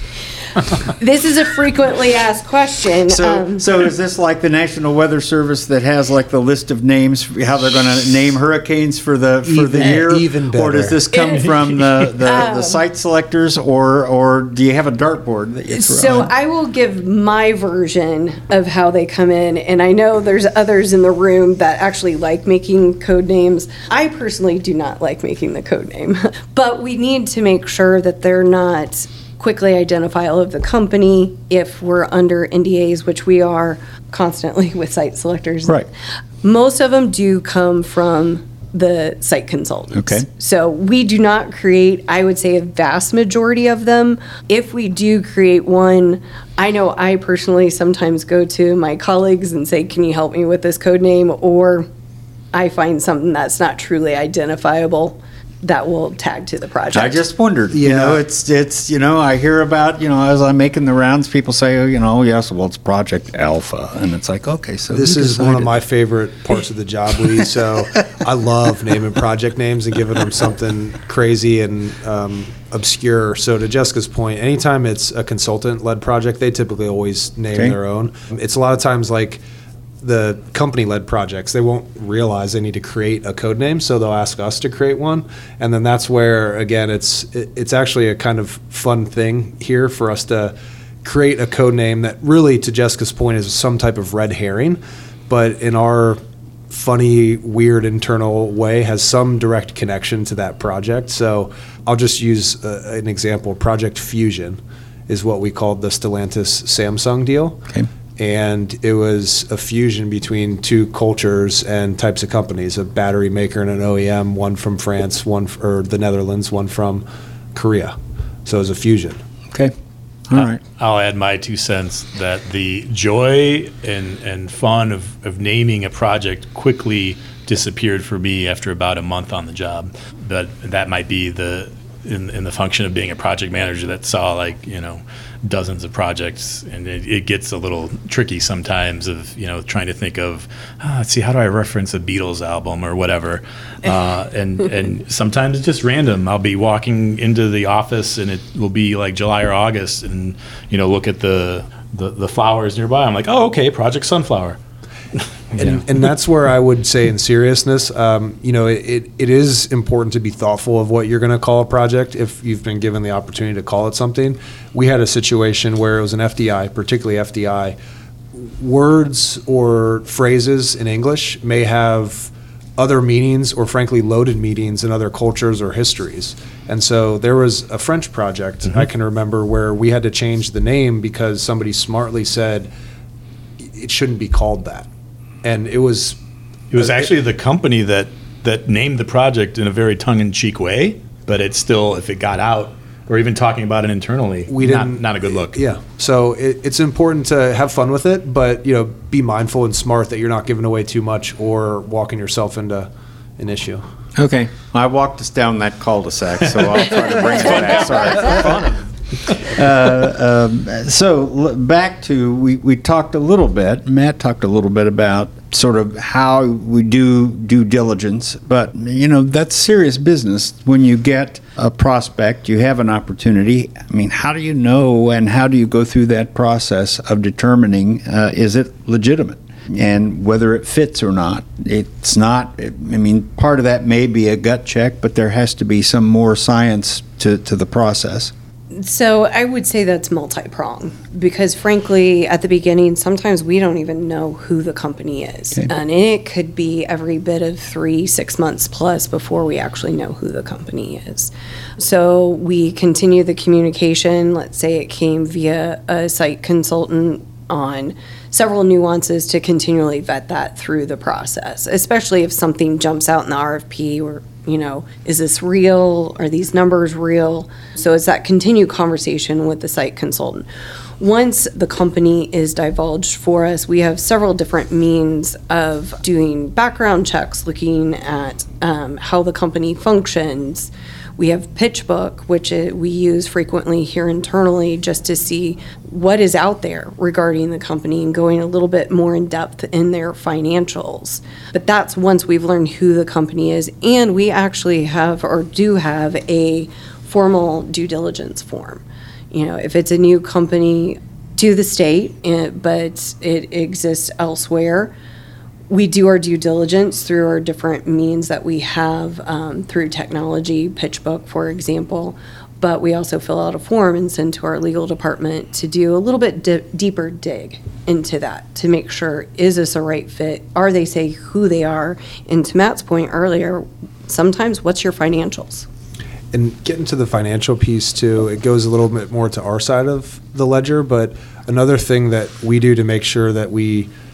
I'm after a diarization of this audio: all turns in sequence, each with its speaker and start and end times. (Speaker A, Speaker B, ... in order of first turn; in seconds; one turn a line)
Speaker A: 0.8-3.6
Speaker B: 3.1-16.3
Speaker C: 9.4-11.0
Speaker A: 11.1-11.4
Speaker A: 12.2-12.8
Speaker A: 15.7-35.8
Speaker A: 36.4-51.9
Speaker B: 39.9-40.3
Speaker A: 52.5-57.2
Speaker B: 56.9-65.8
Speaker C: 57.7-58.2
Speaker C: 64.9-79.4
Speaker C: 80.0-107.7
Speaker C: 108.2-117.0
Speaker C: 117.5-119.2
Speaker B: 120.3-120.6
Speaker D: 120.3-154.6
Speaker D: 155.2-155.8
Speaker C: 155.5-167.8
Speaker C: 168.3-182.7
Speaker C: 183.6-184.9
Speaker C: 185.4-186.2
Speaker D: 186.7-195.6
Speaker C: 186.8-187.1
Speaker C: 194.5-203.8
Speaker B: 204.2-208.7
Speaker D: 207.3-208.8
Speaker B: 209.3-238.3
Speaker A: 238.7-270.5
Speaker A: 271.0-304.9
Speaker A: 305.7-325.7
Speaker C: 326.3-333.9